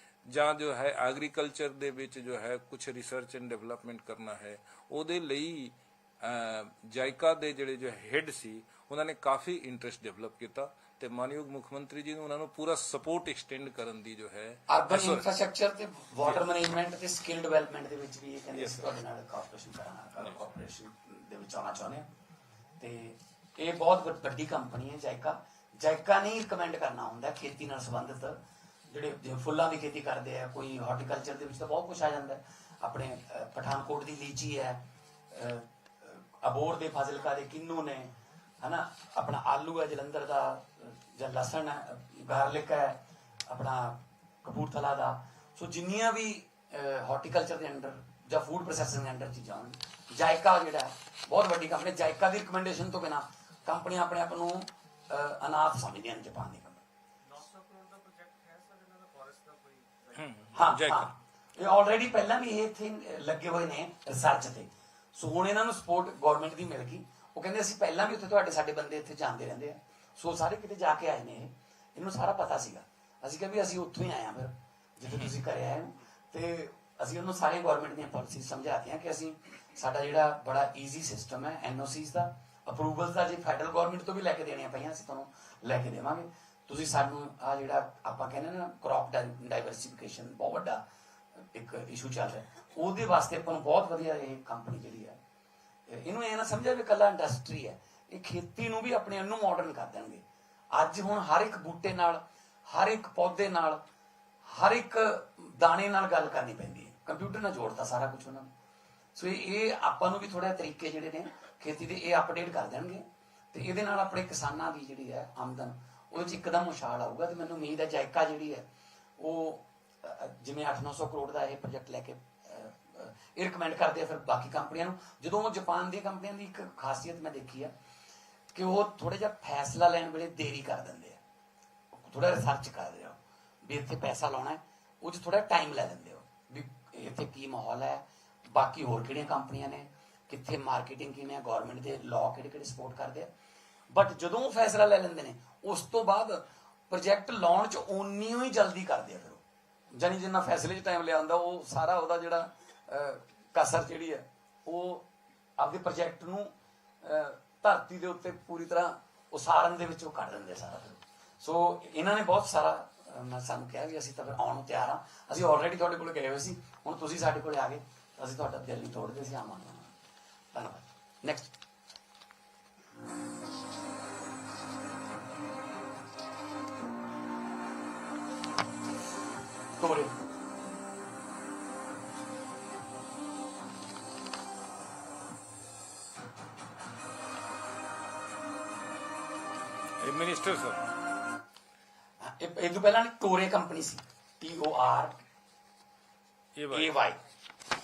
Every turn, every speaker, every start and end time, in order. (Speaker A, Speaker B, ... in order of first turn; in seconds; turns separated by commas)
Speaker A: 0.3-15.3, Speaker B: 14.7-22.1, Speaker A: 18.5-18.9, Speaker B: 22.8-56.9, Speaker C: 57.5-59.9, Speaker A: 60.1-61.1, Speaker B: 60.5-90.8, Speaker B: 91.4-95.2, Speaker B: 95.9-103.8, Speaker B: 104.5-108.5, Speaker B: 109.1-118.7, Speaker B: 119.2-127.7, Speaker B: 128.5-131.2, Speaker B: 131.9-143.3, Speaker B: 143.9-149.4, Speaker B: 149.9-155.1, Speaker B: 155.6-169.9, Speaker B: 170.5-171.5, Speaker B: 179.8-180.1, Speaker A: 190.0-190.9, Speaker B: 192.2-195.2, Speaker A: 196.6-196.9, Speaker B: 196.7-197.2